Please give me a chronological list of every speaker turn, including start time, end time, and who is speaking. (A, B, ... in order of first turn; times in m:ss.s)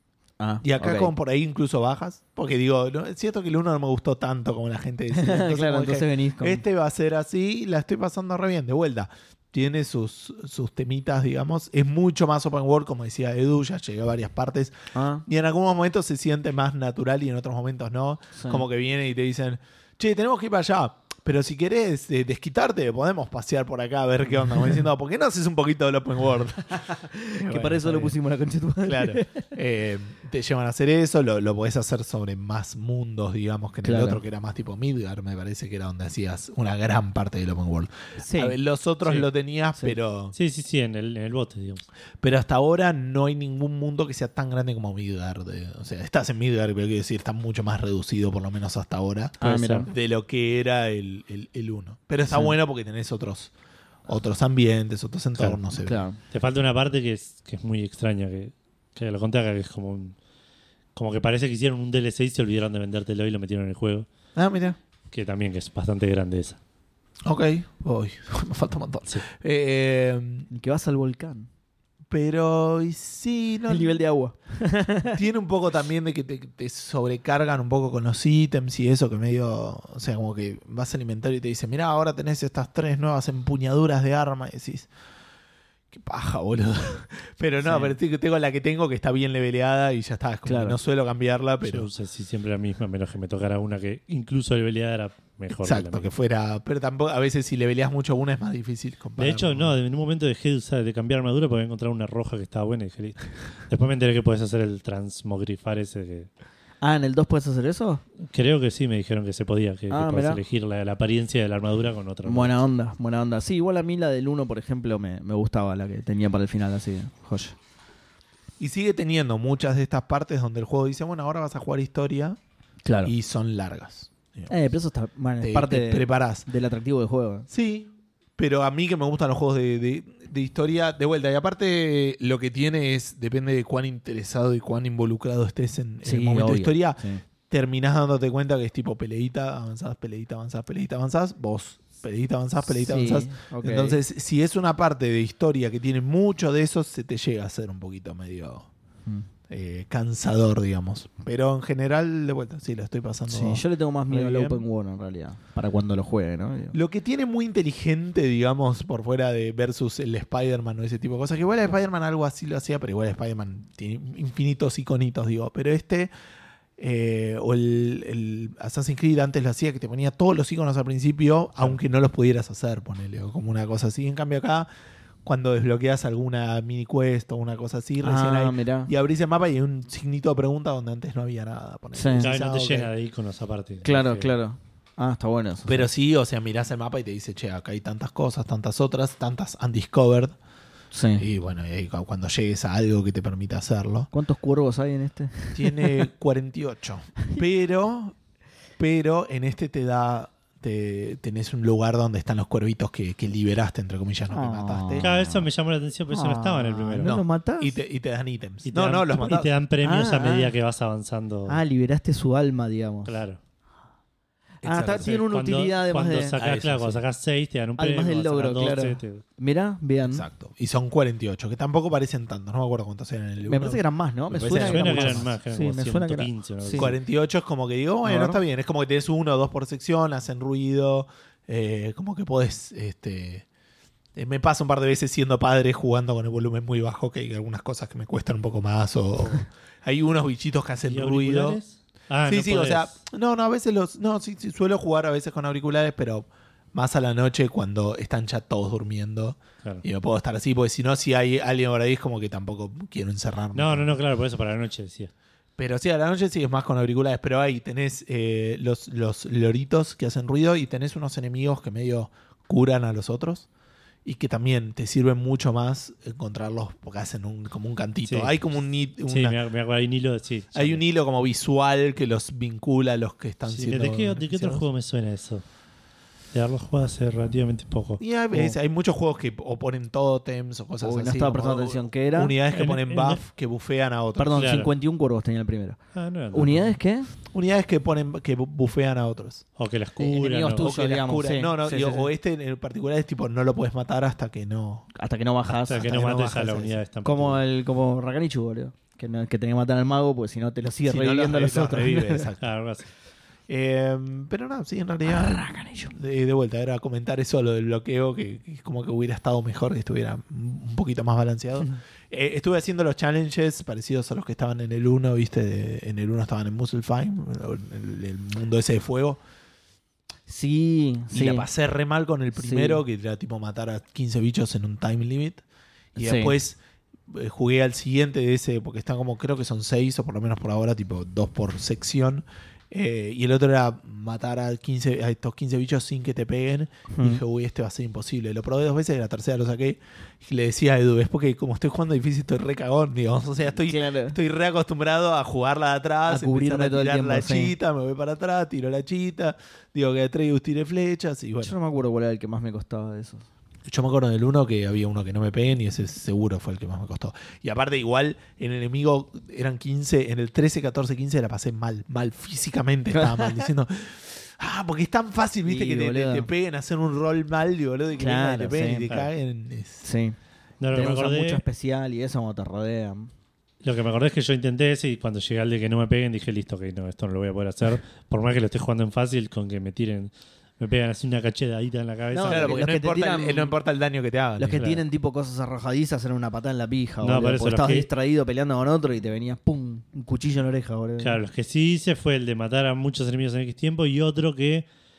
0:00.4-0:01.1 A
0:00.6-0:26.9 B
0:05.1-0:06.6 A
0:14.9-0:15.2 A
0:18.3-0:18.6 A
0:26.8-0:29.5 A
0:27.4-0:28.2 B
0:28.8-0:40.3 B
0:33.8-0:34.2 A
0:38.2-0:38.6 A
0:40.3-0:41.9 C
0:42.2-0:53.5 B
0:49.4-0:49.9 A
0:49.4-0:49.9 C
0:54.1-0:56.0 B
0:55.8-0:56.2 A
0:56.3-1:00.2 C
1:01.0-1:04.1 C
1:04.4-1:04.8 B
1:05.1-1:06.6 C
1:07.3-1:10.5 B
1:10.5-1:11.5 A
1:12.1-1:14.0 B
1:13.7-1:15.2 A
1:15.1-1:24.9 B
1:25.9-1:31.9 B
1:27.6-1:28.0 A
1:30.5-1:30.8 A
1:31.6-1:36.1 C
1:35.5-1:39.8 B
1:39.2-1:46.3 C
1:46.8-1:48.0 A
1:48.3-1:52.6 C
1:49.9-1:50.4 A
1:52.2-1:57.6 A
1:58.6-2:02.4 B
2:02.8-2:03.1 A
2:03.0-2:04.5 B
2:04.5-2:07.5 A
2:05.4-2:06.5 B
2:07.5-2:28.7 B
2:16.0-2:17.2 A
2:22.7-2:24.0 A
2:29.5-2:34.6 B
2:33.3-2:36.8 A
2:36.7-2:46.1 B
2:46.8-2:54.7 B
2:55.2-3:02.9 B
2:58.0-2:58.9 A
3:01.9-3:02.3 A
3:02.2-3:04.3 C
3:03.8-3:05.9 A
3:05.7-3:10.4 B
3:10.9-3:11.3 A
3:11.2-3:14.1 B
3:14.1-3:16.1 A
3:15.6-3:18.2 B
3:18.8-3:25.3 B
3:24.3-3:25.1 A
3:25.0-3:27.2 C
3:26.1-3:27.8 A
3:27.0-3:29.5 B
3:28.7-3:31.6 C
3:29.8-3:30.5 A
3:31.5-3:33.2 A
3:33.0-3:33.4 C
3:34.6-3:35.1 B
3:34.6-3:36.4 A
3:35.0-3:39.2 C
3:36.4-3:37.0 B
3:37.8-3:40.3 A
3:40.1-3:45.3 B
3:43.5-3:46.9 A
3:44.4-3:47.0 C
3:46.8-3:53.5 B
3:48.0-3:48.4 A
3:54.2-4:01.6 B
4:00.9-4:03.0 C
4:02.3-4:13.9 B
4:13.5-4:15.1 C
4:15.6-4:23.5 B
4:24.0-4:29.4 B
4:28.1-4:28.3 C
4:29.1-4:30.8 C
4:30.5-4:34.6 B
4:33.5-4:35.4 C
4:36.3-4:38.0 C
4:38.0-4:44.4 B
4:40.8-4:42.4 A
4:42.5-4:43.2 C
4:44.2-4:45.8 A
4:44.3-4:44.7 C
4:45.9-4:46.7 C
4:46.3-4:47.1 A
4:47.3-4:49.4 B
4:49.6-4:50.7 C
4:50.0-4:52.1 A
4:50.6-4:54.9 B
4:55.0-5:02.3 A
4:55.5-4:57.4 C
5:00.8-5:02.5 B
5:02.4-5:02.9 C
5:03.5-5:19.2 B
5:05.1-5:05.9 A
5:20.3-5:21.5 A
5:21.1-5:25.4 B
5:22.4-5:22.8 A
5:26.0-5:51.6 B
5:26.0-5:26.4 A
5:36.9-5:37.2 A
5:43.5-5:44.2 A
5:46.1-5:47.5 A
5:51.4-5:53.2 A
5:53.7-6:09.8 B
6:02.9-6:03.5 A
6:05.4-6:06.3 A
6:08.0-6:08.9 A
6:09.8-6:10.2 A
6:10.6-6:11.4 C
6:10.7-6:13.1 A
6:13.6-6:22.6 C
6:22.1-6:23.5 A
6:22.2-6:24.6 B
6:24.4-6:31.2 A
6:24.6-6:24.8 C
6:27.0-6:27.9 C
6:31.0-6:34.7 C